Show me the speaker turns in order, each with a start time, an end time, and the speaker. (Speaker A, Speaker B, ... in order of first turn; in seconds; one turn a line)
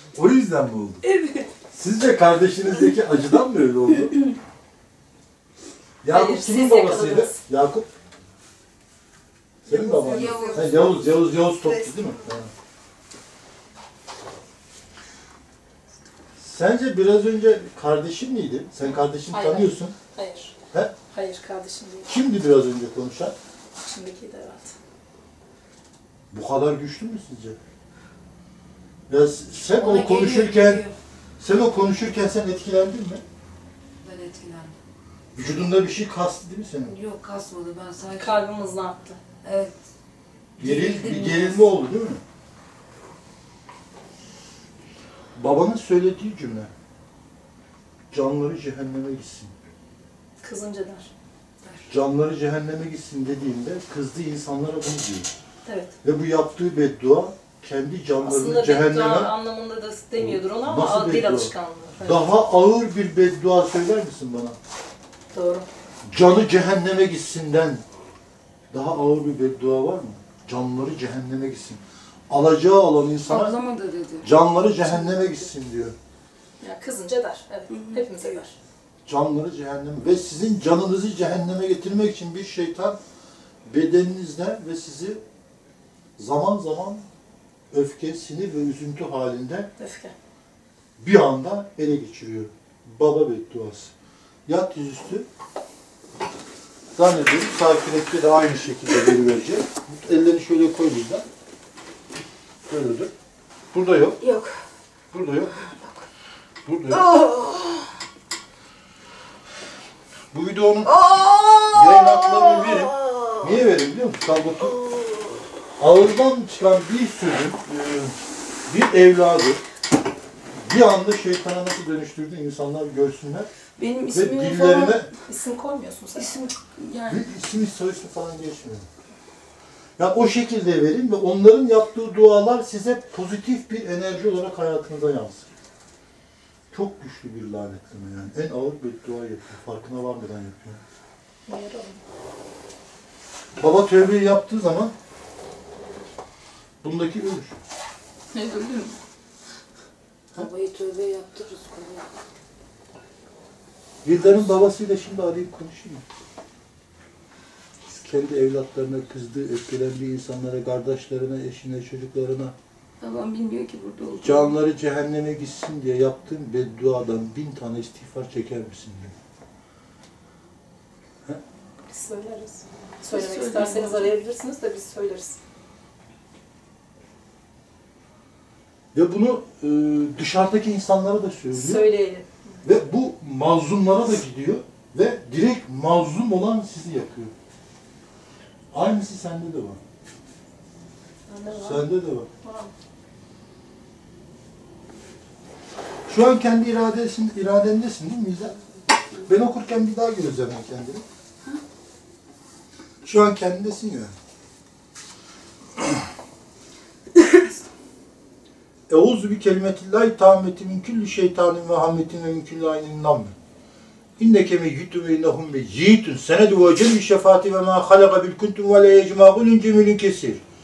Speaker A: 0.1-1.0
Speaker B: 1.0-1.5
Speaker A: 1.7-4.1
Speaker A: 6.0-7.9
Speaker C: 6.1-7.4
Speaker A: 9.7-12.5
Speaker B: 9.7-10.9
Speaker C: 10.1-10.7
Speaker A: 16.4-19.9
Speaker C: 19.3-20.6
Speaker C: 21.1-22.1
Speaker A: 22.1-23.4
Speaker C: 23.8-24.8
Speaker A: 26.3-27.6
Speaker A: 29.1-30.9
Speaker B: 29.8-30.9
Speaker A: 31.4-33.2
Speaker B: 34.0-34.7
Speaker A: 35.3-37.0
Speaker B: 36.9-38.4
Speaker C: 38.2-39.2
Speaker B: 39.4-39.7
Speaker A: 40.6-42.2
Speaker B: 40.6-41.5
Speaker A: 45.4-46.7
Speaker A: 48.1-49.5
Speaker C: 50.4-51.1
Speaker A: 51.9-55.3
Speaker C: 55.6-55.9
Speaker A: 56.0-59.4
Speaker C: 58.2-62.3
Speaker A: 60.2-61.5
Speaker A: 62.0-64.6
Speaker C: 65.3-65.7
Speaker A: 66.1-67.8
Speaker A: 68.7-73.5
Speaker B: 73.3-74.3
Speaker A: 74.2-76.0
Speaker B: 74.9-75.3
Speaker C: 76.6-78.5
Speaker B: 77.7-78.5
Speaker A: 79.1-83.0
Speaker A: 83.7-85.2
Speaker A: 86.2-87.1
Speaker A: 87.7-89.7
Speaker C: 89.8-90.1
Speaker A: 91.0-93.9
Speaker A: 94.5-95.3
Speaker A: 97.0-101.2
Speaker A: 102.7-103.1
Speaker A: 103.7-104.2
Speaker B: 104.2-104.6
Speaker A: 105.1-105.5
Speaker B: 105.6-106.0
Speaker A: 106.7-107.1
Speaker B: 106.9-107.9
Speaker A: 110.3-110.9
Speaker B: 110.8-113.5
Speaker A: 111.7-114.7
Speaker B: 114.6-115.4
Speaker A: 115.8-118.1
Speaker A: 118.7-119.6
Speaker A: 120.6-123.5
Speaker B: 123.8-125.1
Speaker A: 124.1-125.1
Speaker C: 125.3-126.3
Speaker B: 126.2-127.2
Speaker A: 127.1-128.9
Speaker A: 130.0-135.5
Speaker A: 136.7-140.8
Speaker C: 141.5-142.0
Speaker A: 143.6-144.9
Speaker A: 146.8-147.6
Speaker C: 148.3-148.9
Speaker B: 150.4-152.0
Speaker A: 154.0-156.0
Speaker A: 158.0-162.5
Speaker B: 163.0-164.6
Speaker A: 164.2-169.1
Speaker C: 171.9-175.4
Speaker B: 173.1-174.2
Speaker A: 178.9-181.9
Speaker C: 181.5-182.5
Speaker A: 182.6-187.3
Speaker A: 188.7-189.8
Speaker C: 191.3-191.9
Speaker A: 191.6-192.3
Speaker C: 192.4-192.7
Speaker A: 196.1-198.6
Speaker A: 199.3-201.0
Speaker A: 203.0-204.1
Speaker B: 207.2-207.5
Speaker A: 208.9-213.3
Speaker A: 214.2-220.4